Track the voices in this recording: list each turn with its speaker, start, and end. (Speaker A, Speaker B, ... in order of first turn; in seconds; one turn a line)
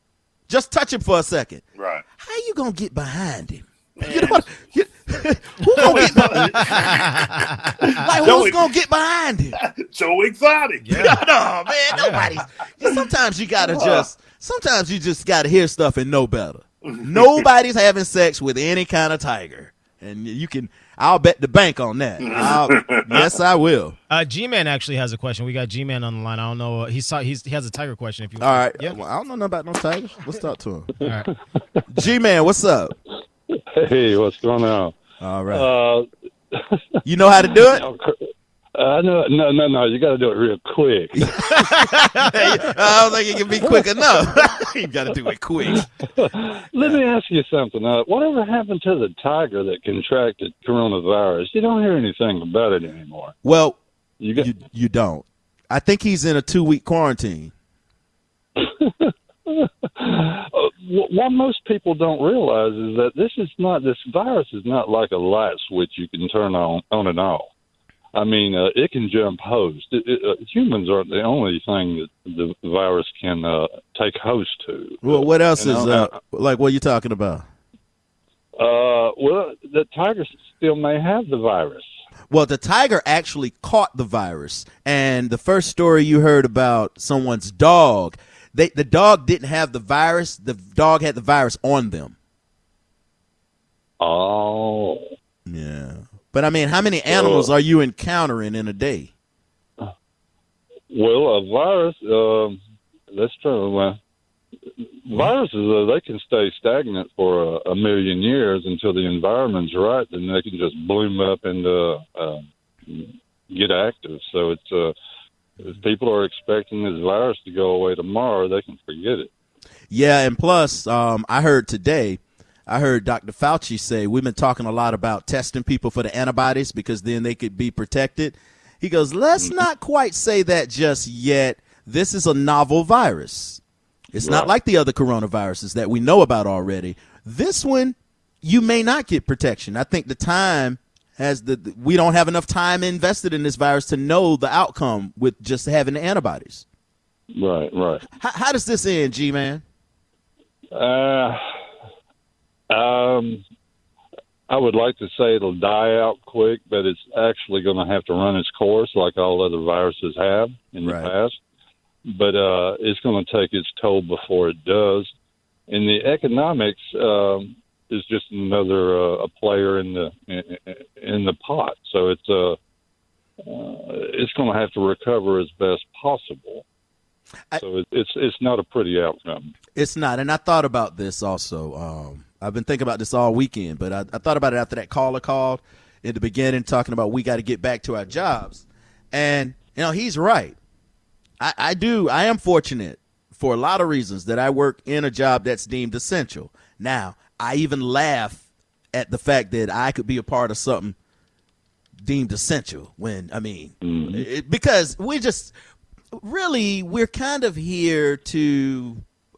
Speaker A: 0.5-1.6
Speaker B: 1.7-2.0
Speaker A: 2.1-6.9
Speaker B: 4.0-4.5
Speaker B: 5.8-8.7
Speaker C: 5.9-7.7
Speaker A: 8.0-9.6
Speaker B: 9.6-11.2
Speaker C: 10.8-11.2
Speaker A: 10.9-23.9
Speaker C: 11.9-12.4
Speaker B: 13.6-14.1
Speaker B: 16.8-17.4
Speaker B: 22.2-23.0
Speaker C: 24.1-29.0
Speaker A: 28.4-30.9
Speaker C: 31.0-31.3
Speaker A: 31.9-32.9
Speaker D: 33.7-34.9
Speaker A: 35.2-35.7
Speaker D: 35.5-36.8
Speaker A: 37.0-37.8
Speaker D: 37.4-38.2
Speaker D: 38.7-41.4
Speaker A: 41.2-45.9
Speaker C: 41.6-42.5
Speaker D: 43.6-43.9
Speaker D: 45.7-53.3
Speaker A: 53.4-53.8
Speaker D: 54.2-54.5
Speaker A: 54.3-57.5
Speaker D: 58.6-67.5
Speaker D: 68.1-76.1
Speaker A: 75.0-77.4
Speaker D: 78.6-81.9
Speaker A: 82.3-92.1
Speaker D: 94.0-95.0
Speaker A: 95.5-99.1
Speaker D: 97.1-97.5
Speaker D: 100.9-102.6
Speaker D: 103.1-104.0
Speaker D: 104.8-114.9
Speaker D: 115.6-119.3
Speaker A: 119.9-133.6
Speaker D: 129.4-129.6
Speaker A: 134.1-146.6
Speaker D: 134.2-134.5
Speaker D: 147.3-148.1
Speaker A: 148.2-149.6
Speaker D: 150.7-151.4
Speaker D: 152.7-153.4
Speaker D: 154.5-161.4
Speaker A: 160.8-161.1
Speaker D: 162.1-165.1
Speaker D: 165.7-172.6
Speaker D: 173.4-176.6
Speaker D: 177.6-179.5
Speaker A: 179.8-190.6
Speaker A: 191.4-198.4
Speaker A: 198.9-200.9
Speaker A: 202.0-205.5
Speaker D: 203.8-204.2
Speaker A: 206.1-209.0